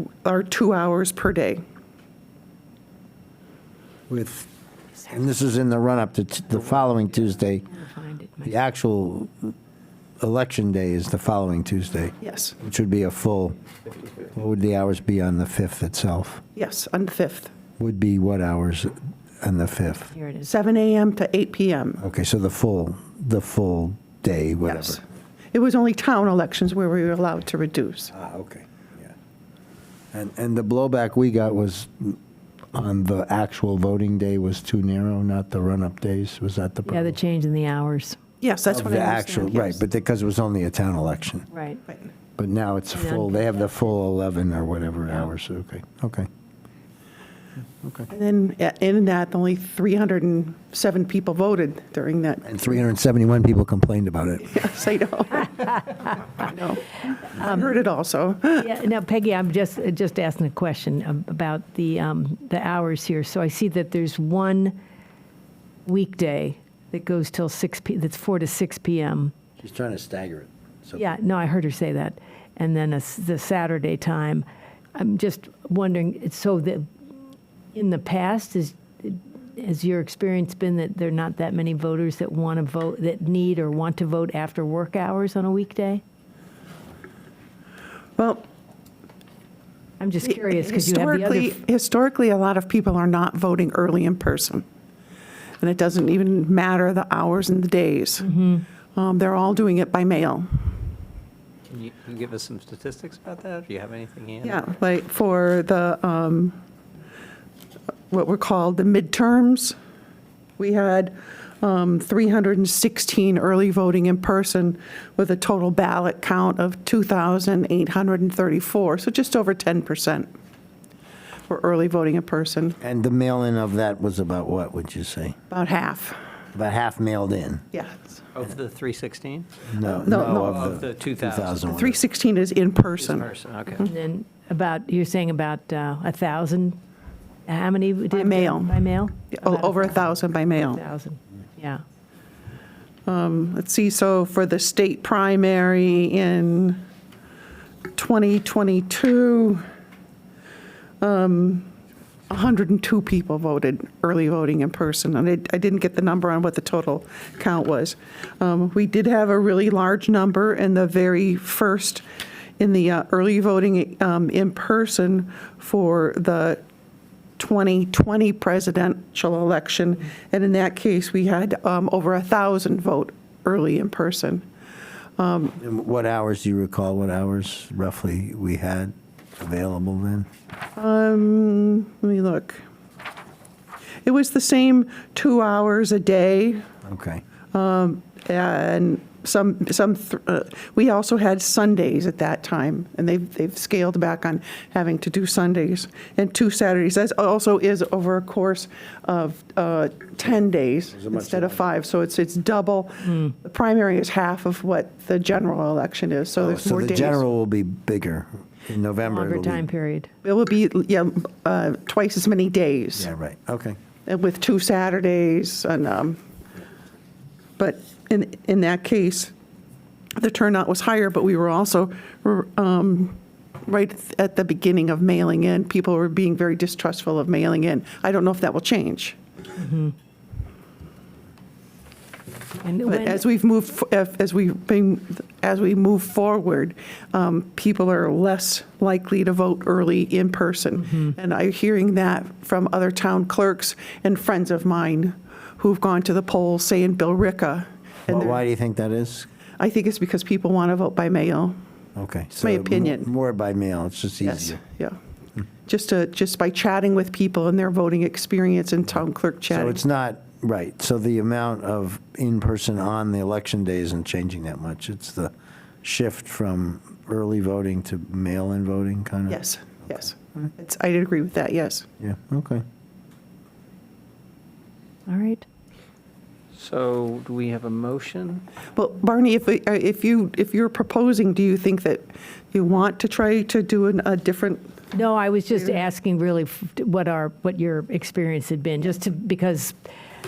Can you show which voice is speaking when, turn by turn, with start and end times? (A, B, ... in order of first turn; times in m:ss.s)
0:00.2-0:01.6 A
0:04.1-0:04.5 B
0:05.0-0:07.7 B
0:07.7-0:08.5 C
0:08.4-0:09.5 B
0:10.2-0:13.6 B
0:12.2-0:12.5 A
0:14.2-0:16.4 B
0:16.6-0:17.5 A
0:17.8-0:20.1 B
0:20.1-0:20.5 C
0:20.4-0:22.0 A
0:22.0-0:25.0 B
0:24.6-0:25.0 A
0:25.5-0:28.1 A
0:28.1-0:29.1 B
0:30.1-0:32.2 B
0:32.7-0:37.1 B
0:36.8-0:38.2 C
0:38.4-0:39.8 A
0:38.7-0:41.4 B
0:41.5-0:41.8 C
0:42.4-0:46.3 B
0:42.9-0:43.4 C
0:47.8-0:48.1 B
0:48.1-0:52.8 A
0:52.4-0:54.6 B
0:54.5-0:58.7 A
0:58.6-1:04.8 C
1:05.9-1:09.3 C
1:09.6-1:11.0 B
1:10.9-1:16.9 C
1:17.7-1:26.0 C
1:28.2-1:28.4 A
1:30.0-1:31.6 C
1:30.2-1:34.6 A
1:35.6-1:38.3 A
1:38.2-1:38.6 C
1:38.9-1:40.6 A
1:41.7-1:44.6 D
1:44.4-1:46.6 A
1:48.1-1:49.8 A
1:50.6-2:00.3 A
2:01.5-2:02.8 A
2:02.8-2:05.4 B
2:05.5-2:06.2 A
2:06.6-2:07.6 B
2:07.7-2:08.2 A
2:08.3-2:11.7 D
2:09.7-2:12.0 B
2:09.8-2:10.8 A
2:11.7-2:13.9 A
2:13.0-2:13.9 D
2:13.8-2:16.8 C
2:17.5-2:21.8 C
2:18.1-2:20.8 A
2:23.1-2:26.8 A
2:27.9-2:29.6 A
2:31.0-2:31.7 A
2:32.3-2:42.0 A
2:42.6-2:46.6 A
2:47.4-2:54.4 A
2:55.2-2:55.6 A
2:55.6-3:00.3 B
3:00.8-3:02.6 A
3:04.0-3:06.7 A
3:06.8-3:07.2 B
3:07.5-3:27.2 A
3:20.9-3:21.6 B
3:26.4-3:29.7 B
3:29.0-3:30.1 C
3:30.2-3:33.1 A
3:33.0-3:33.8 B
3:34.1-3:36.2 A
3:37.6-3:39.3 A
3:40.2-3:49.2 A
3:49.6-3:49.9 C
3:52.6-3:53.2 C
3:52.8-4:08.4 A
4:08.1-4:09.3 B
4:09.6-4:11.6 A
4:12.0-4:14.6 B
4:12.4-4:13.1 A
4:14.2-4:15.0 A
4:15.6-4:19.8 A
4:19.5-4:25.3 B
4:25.8-4:30.0 B
4:29.3-4:31.9 A
4:32.0-4:32.6 B
4:35.1-4:35.4 C
4:36.5-4:38.4 D
4:38.8-4:44.8 A
4:44.9-4:49.8 C